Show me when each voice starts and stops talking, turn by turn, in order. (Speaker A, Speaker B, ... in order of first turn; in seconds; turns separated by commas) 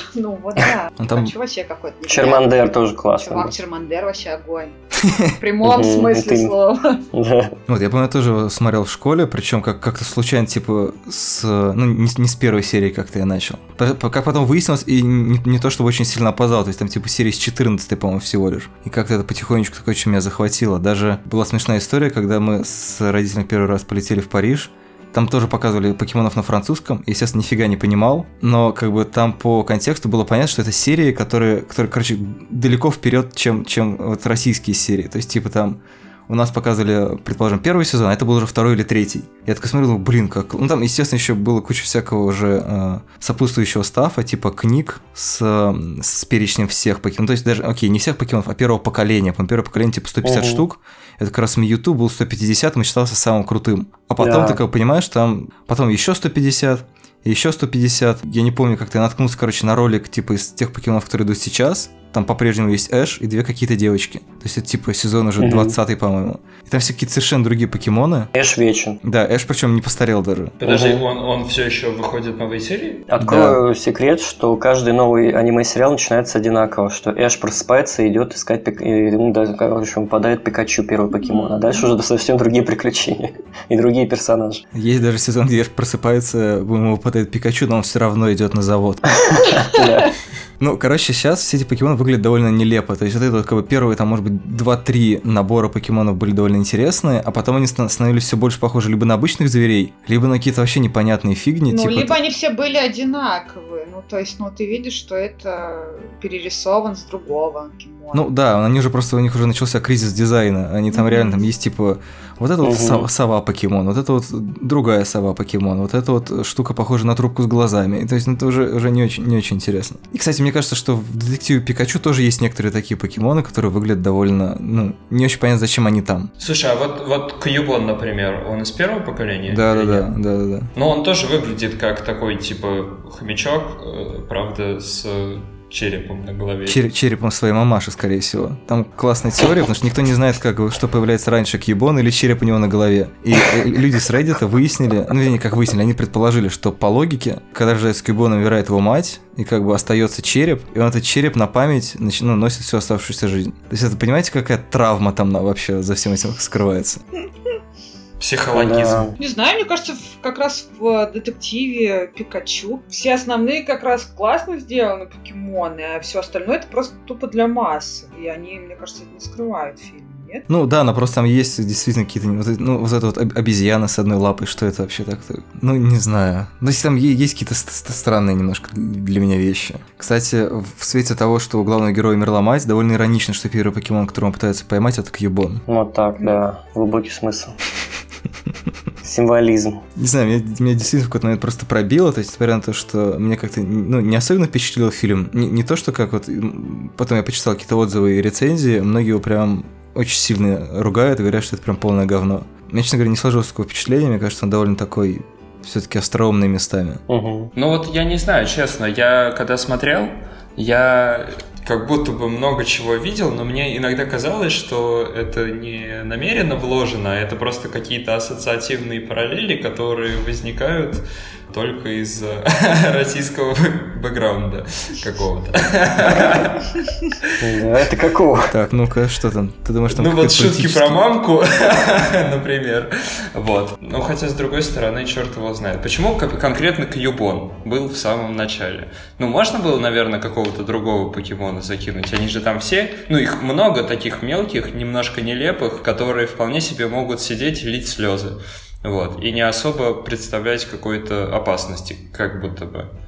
Speaker A: 0.1-2.6, Speaker B: 1.0-1.3, Speaker C: 2.1-3.5, Speaker A: 3.2-4.8, Speaker B: 5.0-5.3, Speaker A: 5.4-7.0, Speaker C: 5.6-6.5, Speaker C: 7.1-7.5, Speaker B: 7.7-68.3, Speaker C: 50.2-50.6, Speaker C: 54.2-54.6, Speaker C: 65.4-65.8, Speaker C: 68.3-69.0, Speaker B: 69.0-70.6, Speaker D: 70.6-73.1, Speaker C: 70.6-71.0, Speaker C: 73.1-84.6, Speaker B: 73.2-73.6, Speaker A: 81.3-81.9, Speaker B: 84.7-89.1, Speaker C: 89.2-90.1, Speaker B: 90.6-102.2, Speaker A: 101.7-108.2, Speaker B: 108.1-126.3, Speaker A: 110.9-111.4, Speaker C: 112.6-113.1, Speaker D: 126.4-130.1, Speaker B: 129.5-130.7, Speaker D: 130.7-136.8, Speaker B: 136.7-157.0, Speaker D: 158.2-159.1, Speaker C: 158.5-159.1, Speaker A: 159.2-170.5, Speaker B: 170.5-185.6, Speaker C: 185.7-187.6, Speaker A: 186.2-186.4, Speaker C: 189.0-189.8, Speaker B: 190.0-207.0, Speaker C: 207.1-207.5, Speaker D: 207.6-227.3, Speaker C: 227.4-228.5, Speaker B: 228.5-230.9, Speaker D: 229.9-252.9